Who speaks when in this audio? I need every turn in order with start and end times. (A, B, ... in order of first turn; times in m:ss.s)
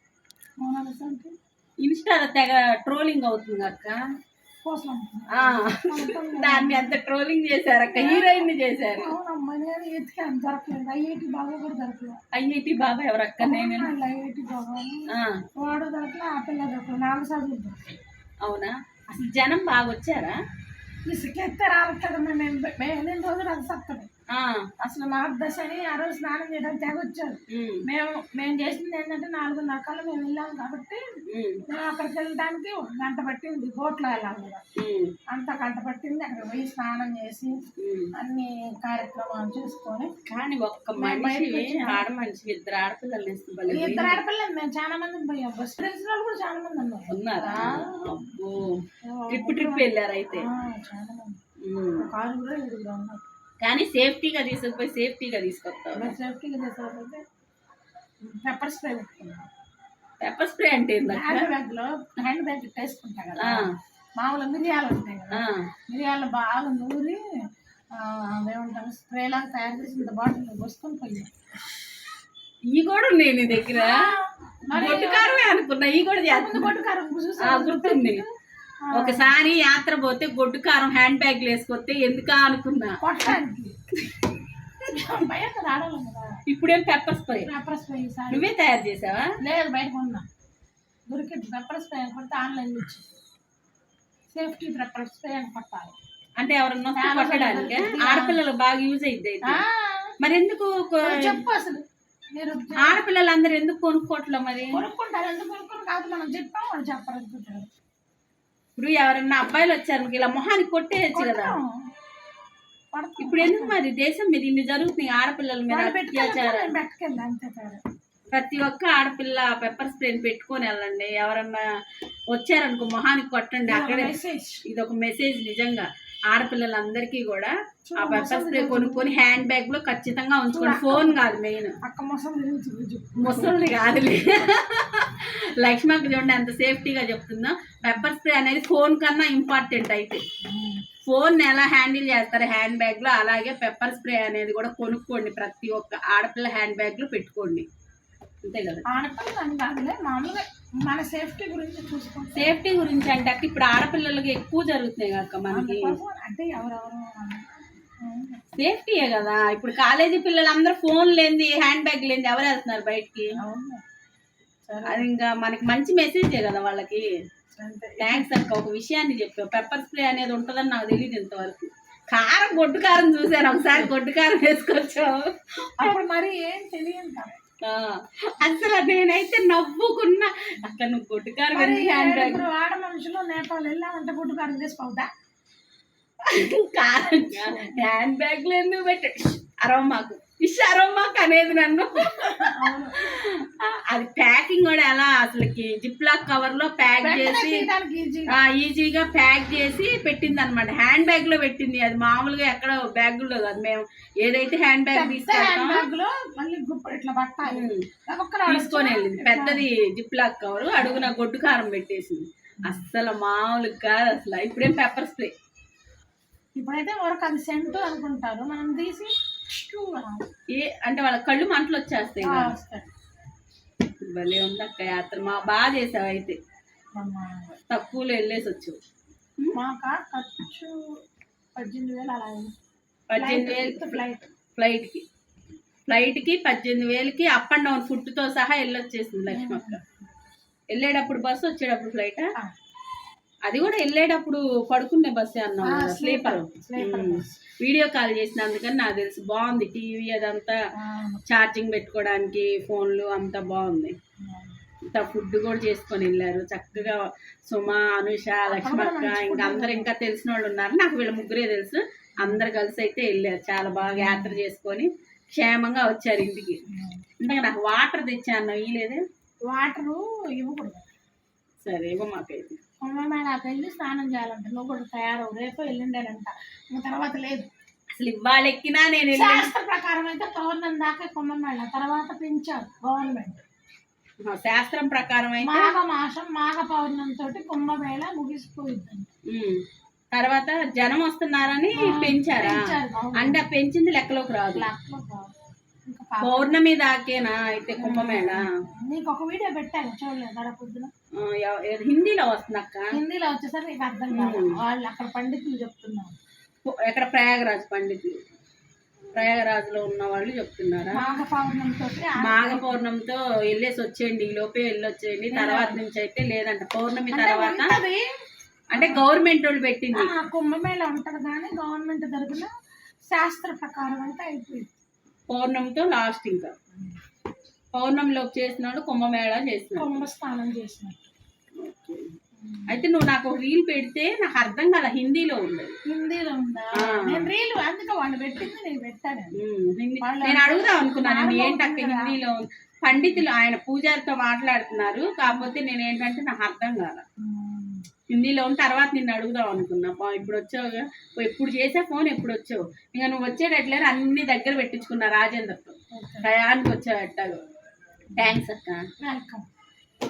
0:00.6-0:01.3 A
0:01.8-0:04.0 B
0:04.6-0:06.9 A
0:05.4-0:09.1 B
0:07.9-0:12.2 A
0:12.3-0:13.9 B
0:13.4-0:18.0 A
0:15.1-0:15.4 B
0:18.4-0:20.4 B
0:21.1-0:24.1 A
0:24.3-0:24.7 B
0:24.8-0:31.0 A
0:27.5-0:27.8 B
0:31.3-0:31.6 B
0:31.7-0:34.6 A
0:34.8-0:35.1 B
0:35.3-0:40.1 A
0:37.8-0:38.1 B
0:40.3-0:44.2 B
0:41.0-0:42.0 A
0:43.7-0:47.9 A
0:47.1-0:48.7 B
0:49.1-0:51.4 A
0:49.3-0:50.5 B
0:51.6-0:52.1 B
0:52.0-0:53.2 A
0:53.6-0:56.1 B
0:56.0-0:57.2 A
0:58.2-0:59.5 A
1:00.2-1:01.5 B
1:01.1-1:07.2 A
1:03.4-1:03.7 B
1:05.3-1:05.7 B
1:07.9-1:11.3 A
1:12.7-1:14.1 B
1:13.7-1:15.6 A
1:14.7-1:16.7 B
1:16.2-1:18.3 A
1:17.4-1:18.2 B
1:18.8-1:19.3 A
1:18.9-1:23.0 B
1:23.0-1:23.7 A
1:24.9-1:26.4 A
1:26.5-1:27.5 B
1:27.4-1:28.5 A
1:28.3-1:29.3 B
1:29.4-1:30.3 A
1:31.1-1:33.1 A
1:34.3-1:36.0 A
1:36.4-1:39.6 B
1:37.0-1:38.4 A
1:39.5-1:40.1 A
1:40.2-1:41.4 B
1:41.1-1:41.8 A
1:42.4-1:43.0 A
1:42.8-1:44.8 B
1:44.7-1:47.7 A
1:48.8-1:51.6 B
1:51.1-1:51.7 A
1:52.9-1:53.8 A
1:53.2-1:56.8 B
1:55.7-1:57.8 A
1:58.3-2:01.6 B
2:02.3-2:04.1 B
2:03.7-2:04.6 A
2:04.7-2:11.8 B
2:07.8-2:09.1 A
2:10.5-2:11.2 A
2:11.8-2:13.6 A
2:13.2-2:20.2 B
2:20.4-2:20.8 A
2:21.1-2:27.6 B
2:28.4-2:28.9 B
2:28.9-2:32.5 A
2:32.3-2:36.0 B
2:35.5-2:37.5 A
2:38.0-2:38.4 A
2:38.6-2:43.3 B
2:43.4-2:43.8 A
2:44.7-2:45.1 A
2:44.9-2:47.1 B
2:47.6-2:48.3 A
2:48.0-2:55.2 B
2:55.8-2:57.4 A
2:57.6-3:02.4 B
3:01.5-3:05.1 A
3:06.2-3:17.7 B
3:07.1-3:07.8 A
3:12.0-3:13.1 A
3:17.0-3:18.4 A
3:18.3-3:25.8 B
3:24.9-3:29.6 A
3:27.5-3:27.8 B
3:28.5-3:35.3 B
3:30.8-3:31.1 A
3:36.6-3:40.3 A
3:40.5-3:42.5 B
3:42.2-3:42.9 A
3:44.0-3:46.4 B
3:47.0-3:47.6 A
3:47.7-3:48.8 B
3:49.5-3:50.8 A
3:51.6-3:52.5 A
3:53.1-3:54.0 B
3:53.2-3:54.3 A
3:54.6-3:55.0 B
3:55.9-3:59.8 B
3:59.3-4:00.1 A
4:00.7-4:02.3 B
4:03.5-4:10.6 B
4:05.6-4:07.4 A
4:10.8-4:11.2 A
4:11.3-4:13.9 B
4:14.2-4:14.6 A
4:14.9-4:26.6 B
4:18.5-4:19.9 A
4:22.2-4:22.4 A
4:23.9-4:24.4 A
4:26.7-4:27.0 A
4:27.2-4:29.0 B
4:29.5-4:30.8 A
4:31.6-4:32.6 B
4:32.8-4:37.5 A
4:38.0-4:39.5 B
4:39.1-4:43.4 A
4:44.2-4:45.7 B
4:45.4-4:49.1 A
4:49.3-4:49.6 B
4:50.1-4:52.6 B
4:51.7-4:53.4 A
4:53.2-4:54.6 B
4:54.6-4:55.4 A
4:55.9-4:56.6 A
4:56.2-4:58.5 B
4:57.8-5:00.9 A
5:01.2-5:03.0 B
5:02.9-5:06.2 A
5:04.1-5:04.6 B
5:06.6-5:08.2 B
5:09.1-5:11.0 B
5:10.9-5:12.8 A
5:12.2-5:17.8 B
5:15.3-5:15.8 A
5:17.1-5:18.1 A
5:18.7-5:20.1 B
5:18.8-5:19.1 A
5:19.9-5:22.5 A
5:23.1-5:24.7 A
5:25.3-5:26.5 B
5:27.7-5:30.0 B
5:29.8-5:31.1 A
5:31.6-5:32.1 B
5:32.4-5:32.8 A
5:32.7-5:35.8 B
5:35.9-5:39.3 A
5:36.8-5:37.2 B
5:39.4-5:47.0 B
5:40.0-5:42.2 A
5:42.9-5:43.2 A
5:47.2-5:47.8 A
5:48.1-5:57.4 B
5:55.9-5:56.3 A
5:58.2-5:58.9 B
5:59.0-5:59.4 A